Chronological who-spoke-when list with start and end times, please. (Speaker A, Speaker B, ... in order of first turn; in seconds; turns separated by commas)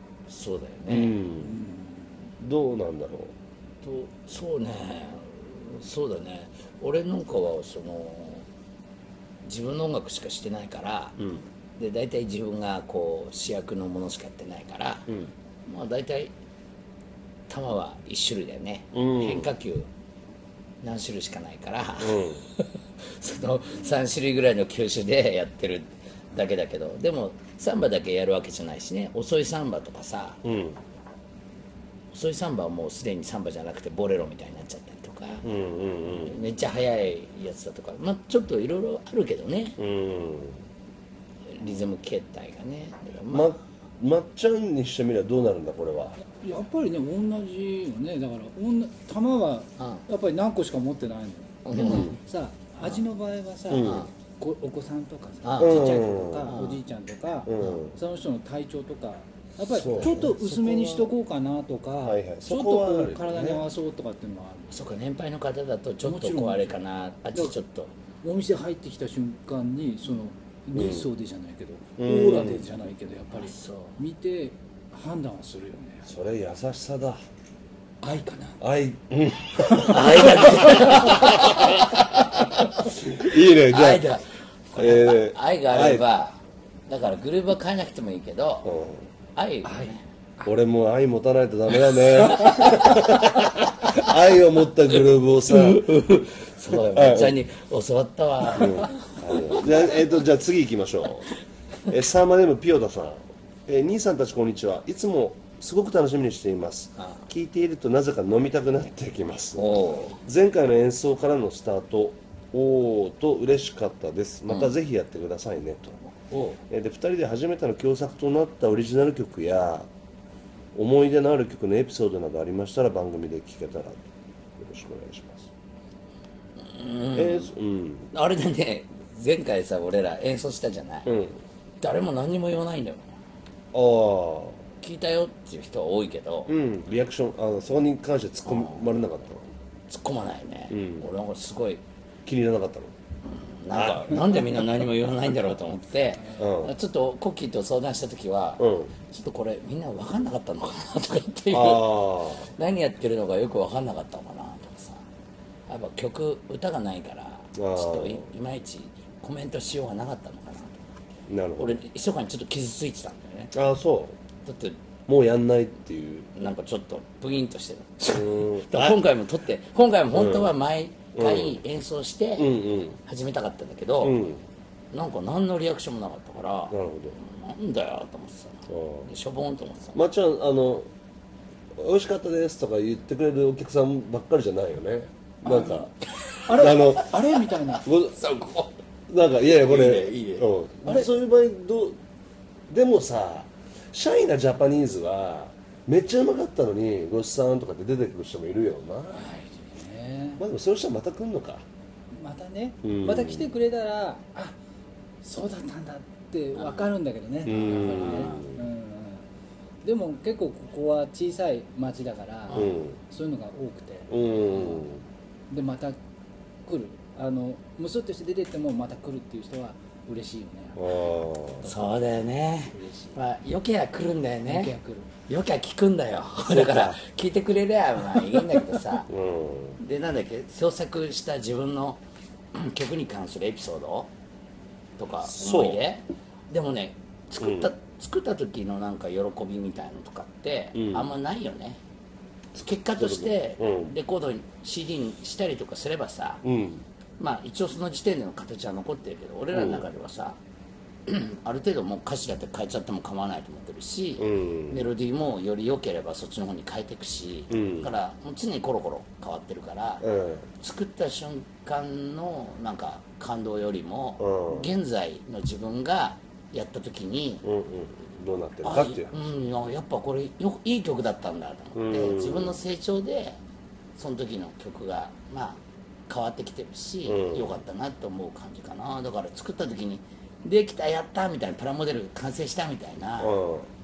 Speaker A: 0.3-1.2, Speaker B: 0.9-1.6, Speaker C: 1.4-2.2, Speaker B: 2.4-3.3, Speaker A: 3.8-8.4, Speaker A: 9.4-11.2, Speaker B: 11.2-11.5, Speaker A: 11.8-15.1, Speaker B: 15.1-15.3, Speaker A: 15.7-16.3, Speaker A: 17.5-19.9, Speaker B: 18.9-19.5, Speaker A: 20.8-30.4, Speaker B: 22.0-22.4, Speaker B: 30.4-30.8, Speaker A: 32.1-35.5, Speaker B: 35.4-36.4, Speaker A: 36.0-39.8, Speaker B: 39.8-40.6, Speaker A: 41.5-43.5, Speaker B: 43.3-46.2, Speaker C: 46.2-64.8, Speaker A: 49.8-50.0, Speaker A: 51.6-52.2, Speaker B: 51.7-52.2, Speaker B: 53.7-54.1, Speaker A: 53.8-54.1, Speaker A: 55.4-56.8, Speaker B: 55.6-56.6, Speaker B: 57.5-58.0, Speaker B: 59.7-60.9, Speaker A: 59.8-61.1, Speaker B: 62.0-63.6, Speaker A: 64.7-67.9, Speaker C: 66.0-66.8, Speaker C: 68.2-76.1, Speaker B: 70.7-71.1, Speaker B: 72.0-72.7, Speaker A: 73.3-74.0, Speaker B: 76.0-77.2, Speaker C: 78.0-78.6, Speaker B: 78.6-84.0, Speaker C: 79.8-81.3, Speaker A: 79.8-82.6, Speaker A: 83.5-88.7, Speaker B: 84.7-86.1, Speaker B: 88.6-89.1, Speaker A: 89.3-90.0, Speaker C: 89.6-90.5, Speaker B: 90.4-96.1, Speaker A: 95.4-99.9, Speaker B: 96.7-97.4, Speaker B: 98.5-116.1, Speaker A: 107.0-107.2, Speaker A: 109.6-110.2, Speaker A: 116.3-116.6, Speaker B: 116.7-119.9, Speaker B: 120.7-125.5, Speaker A: 126.6-127.5, Speaker B: 127.1-128.1, Speaker A: 128.1-131.1, Speaker B: 131.1-131.4, Speaker A: 131.8-133.1, Speaker B: 133.7-134.6, Speaker A: 134.8-136.5, Speaker B: 136.5-139.5, Speaker A: 138.4-138.8, Speaker A: 139.9-141.8, Speaker B: 140.7-141.1, Speaker B: 142.2-142.9, Speaker A: 143.2-155.1, Speaker B: 143.7-144.6, Speaker B: 146.4-146.7, Speaker B: 148.6-148.9, Speaker B: 151.5-152.5, Speaker A: 155.7-161.0, Speaker B: 157.6-158.3, Speaker B: 161.3-161.8, Speaker A: 161.6-163.5, Speaker B: 163.5-164.2, Speaker A: 164.4-164.8, Speaker B: 165.1-166.3, Speaker A: 166.3-172.5, Speaker B: 168.1-169.0, Speaker B: 170.1-170.5, Speaker B: 171.1-171.6, Speaker B: 172.4-173.0, Speaker A: 173.0-174.2, Speaker B: 174.0-174.4, Speaker A: 174.9-180.0, Speaker B: 176.7-177.2, Speaker B: 178.7-179.1, Speaker B: 179.9-180.9, Speaker B: 181.7-185.9, Speaker C: 185.4-185.9, Speaker A: 185.5-188.7, Speaker C: 186.4-187.8, Speaker B: 186.5-187.1, Speaker B: 187.8-188.2, Speaker B: 189.1-192.0, Speaker A: 189.5-190.5, Speaker B: 192.7-199.3, Speaker C: 199.1-200.4, Speaker B: 200.4-201.7, Speaker C: 202.1-204.6, Speaker B: 202.8-203.5, Speaker C: 205.2-209.3, Speaker A: 206.5-206.9, Speaker B: 207.4-208.6, Speaker A: 207.6-208.4, Speaker C: 209.8-214.7, Speaker B: 212.5-213.0, Speaker B: 214.1-215.1, Speaker C: 215.5-216.0, Speaker C: 216.7-220.9, Speaker B: 220.7-221.7, Speaker A: 221.6-224.7, Speaker C: 222.7-223.2, Speaker C: 224.4-225.1, Speaker A: 225.3-229.1, Speaker B: 226.5-227.0, Speaker B: 229.1-229.8, Speaker A: 229.8-232.0, Speaker A: 232.5-234.1, Speaker A: 235.0-241.8, Speaker B: 235.2-235.8, Speaker B: 237.4-237.7, Speaker B: 240.7-241.1, Speaker A: 242.6-246.4, Speaker B: 242.9-243.9, Speaker B: 246.4-246.8, Speaker A: 247.2-250.4, Speaker B: 249.5-249.9, Speaker A: 251.1-260.0, Speaker B: 254.2-254.9, Speaker B: 257.5-257.9, Speaker B: 260.0-260.5, Speaker A: 260.6-267.4, Speaker B: 264.2-264.7, Speaker B: 267.4-269.3, Speaker A: 268.6-273.4, Speaker B: 271.7-272.6, Speaker A: 273.9-283.3, Speaker B: 277.1-277.6, Speaker B: 283.2-283.7